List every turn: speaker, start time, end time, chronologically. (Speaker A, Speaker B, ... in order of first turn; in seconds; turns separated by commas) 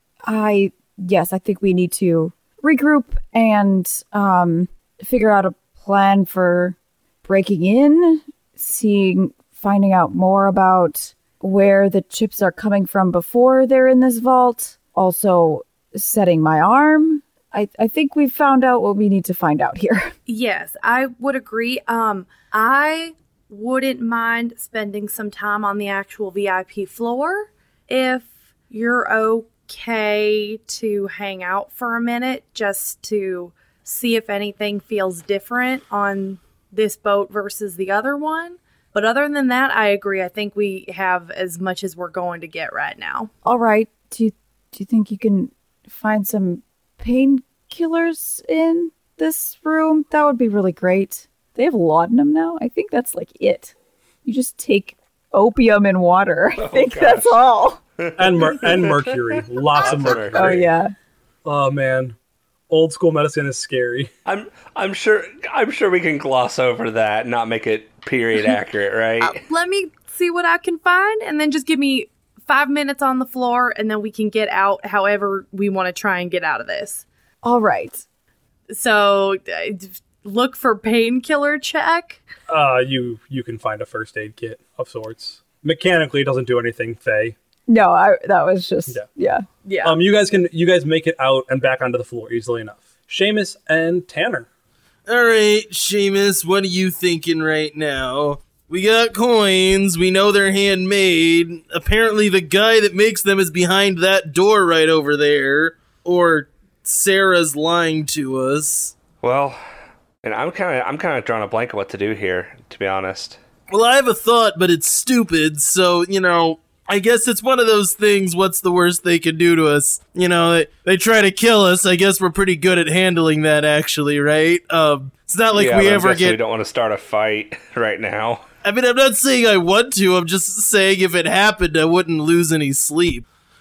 Speaker A: 0.2-20.1, Speaker B: 20.3-43.3, Speaker A: 43.4-53.7, Speaker A: 54.2-57.8, Speaker C: 56.6-57.3, Speaker C: 58.0-59.2, Speaker D: 58.2-60.7, Speaker C: 59.7-60.7, Speaker A: 59.9-60.9, Speaker D: 61.4-62.1, Speaker D: 62.7-64.1, Speaker C: 64.2-69.4, Speaker B: 69.2-77.0, Speaker A: 77.4-78.0, Speaker B: 78.7-82.2, Speaker D: 82.5-87.3, Speaker A: 87.7-89.5, Speaker B: 89.6-90.0, Speaker D: 89.8-94.5, Speaker E: 95.1-108.9, Speaker C: 109.2-109.6, Speaker C: 110.2-113.4, Speaker E: 113.7-126.4, Speaker C: 125.5-128.4, Speaker E: 128.6-133.2